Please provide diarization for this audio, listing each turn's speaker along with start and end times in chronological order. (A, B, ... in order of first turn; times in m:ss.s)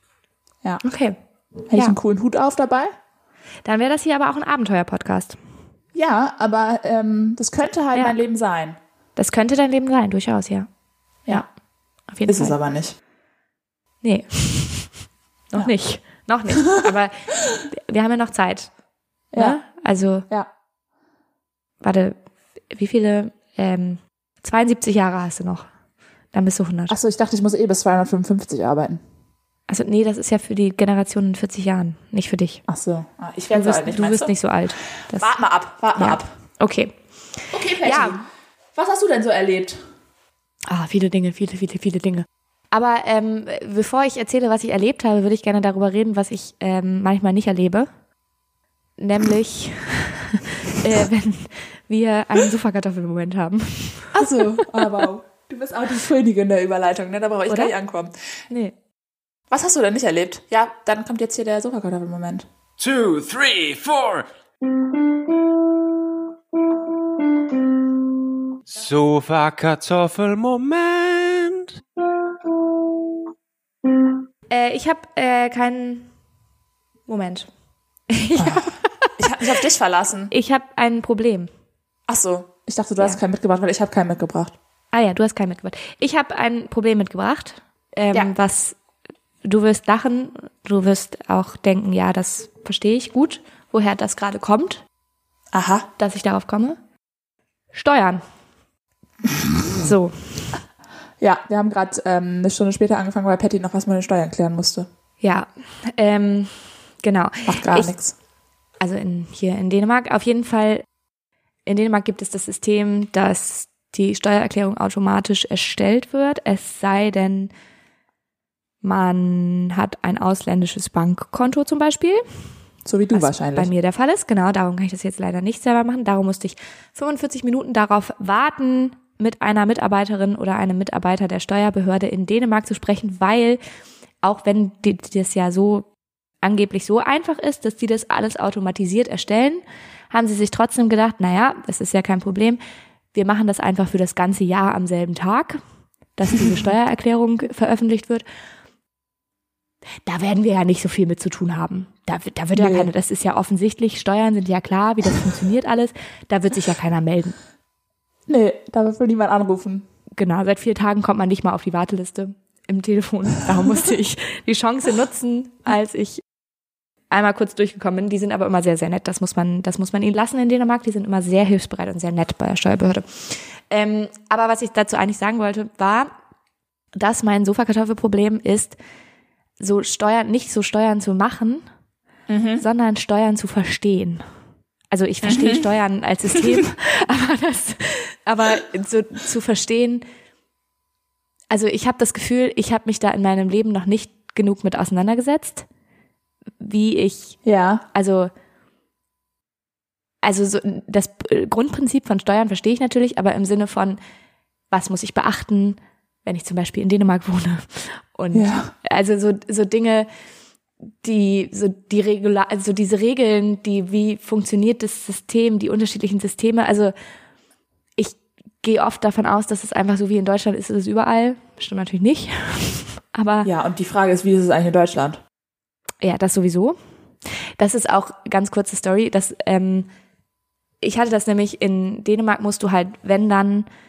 0:00.8-0:01.2 A
0:01.7-0:02.9 B
0:03.6-0:05.4 A
0:05.9-0:08.8 B
0:09.2-0:10.7 A
0:12.1-0:12.6 A
0:12.3-0:12.9 B
0:14.0-0:15.0 A
0:15.5-0:18.7 A
0:19.3-0:19.6 B
0:19.3-0:20.3 A
0:21.8-0:25.7 A
0:26.3-0:27.0 A
0:26.9-0:29.0 B
0:29.7-0:32.6 A
0:32.7-0:34.4 B
0:33.5-0:35.3 A
0:35.1-0:36.3 B
0:36.0-0:37.0 A
0:37.5-0:39.8 B
0:37.8-0:38.2 A
0:40.7-0:47.9 A
0:49.0-0:54.7 A
0:54.2-0:58.1 B
0:59.5-1:02.5 B
1:02.8-1:06.2 C
1:06.8-1:08.1 C
1:08.7-1:13.1 C
1:13.9-1:14.1 C
1:14.5-1:16.1 A
1:17.1-1:17.5 A
1:18.1-1:19.1 A
1:18.4-1:20.3 B
1:20.3-1:21.5 A
1:22.1-1:24.6 B
1:24.9-1:28.8 A
1:29.4-1:34.8 A
1:35.5-1:35.9 B
1:36.0-1:36.8 A
1:37.7-1:38.2 A
1:39.8-1:40.6 A
1:41.2-1:44.9 B
1:45.2-1:47.9 A
1:47.5-1:48.1 B
1:48.8-1:50.8 A
1:51.7-1:57.5 A
1:58.8-2:02.4 A
2:02.8-2:03.7 B
2:03.1-2:13.6 A
2:14.2-2:15.9 A
2:16.4-2:22.6 A
2:23.1-2:25.6 A
2:26.2-2:28.2 A
2:30.0-2:37.4 A
2:32.5-2:32.9 B
2:38.3-2:39.8 B
2:40.2-2:46.2 A
2:47.1-2:56.1 A
2:56.9-2:58.8 A
2:59.6-3:01.6 A
3:02.3-3:02.6 B
3:02.6-3:04.2 A
3:04.9-3:10.0 A
3:05.2-3:05.7 B
3:11.5-3:15.6 A
3:16.6-3:18.3 A
3:17.4-3:17.8 B
3:20.2-3:24.0 A
3:24.7-3:30.1 A
3:28.3-3:28.7 B
3:31.0-3:36.9 A
3:38.0-3:43.5 A
3:43.4-3:45.2 B
3:46.0-3:49.9 A
3:50.8-3:53.7 A